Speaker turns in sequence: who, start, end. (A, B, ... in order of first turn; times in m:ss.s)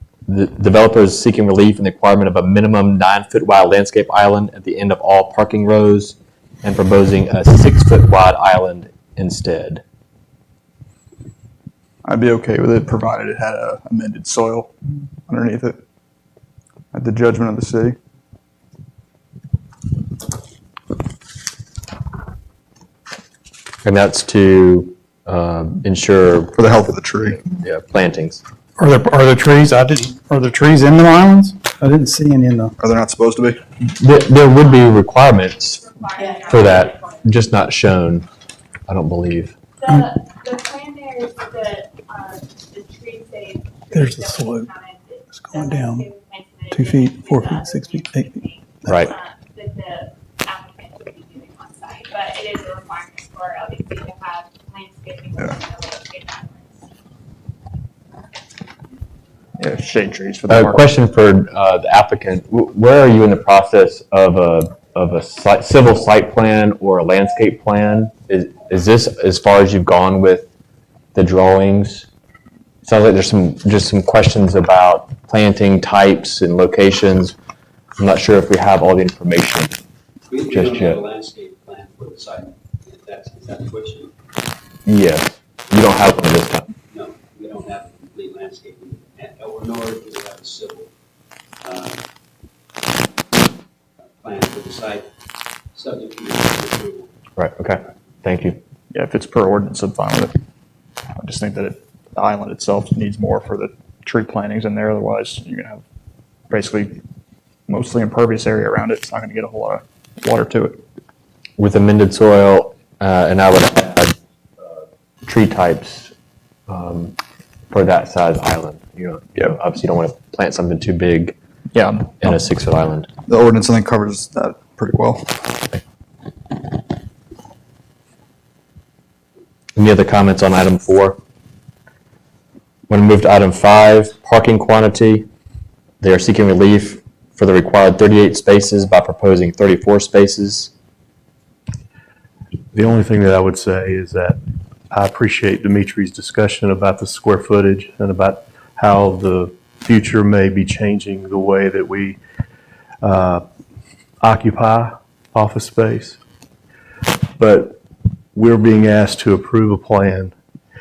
0:00.3-0:09.8 A
0:12.0-0:14.7 B
0:15.3-0:15.8 B
0:16.9-0:18.0 B
0:23.8-0:28.4 A
0:26.5-0:27.4 B
0:28.8-0:32.7 C
0:32.8-0:33.6 B
0:33.8-0:35.8 A
0:35.6-0:37.5 D
0:36.5-0:38.2 A
0:38.9-0:39.6 A
0:39.8-0:56.8 D
0:43.9-0:44.7 C
0:45.3-0:46.1 C
0:46.7-0:49.1 C
0:48.9-0:49.1 A
0:59.6-1:00.9 B
1:00.5-1:10.5 A
1:11.1-1:12.1 A
1:12.8-1:17.4 A
1:18.0-1:19.8 A
1:20.3-1:24.1 E
1:20.5-1:21.0 A
1:24.8-1:26.7 A
1:26.9-1:30.9 E
1:31.6-1:32.0 E
1:34.2-1:35.1 E
1:35.7-1:37.1 E
1:37.4-1:38.6 A
1:38.9-1:40.3 B
1:41.2-1:45.8 B
1:46.5-1:47.0 B
1:47.7-1:50.8 B
1:51.6-1:54.1 A
1:55.2-1:56.1 A
1:56.7-1:57.2 A
1:57.7-2:01.3 A
2:01.7-2:02.3 B
2:02.2-2:03.1 A
2:03.2-2:05.5 B
2:09.7-2:11.2 A
2:12.9-2:15.2 A
2:16.0-2:20.7 A
2:22.7-2:24.4 F
2:24.9-2:32.2 F
2:33.0-2:33.4 F
2:34.2-2:36.2 F
2:37.4-2:37.8 F
2:38.3-2:40.3 F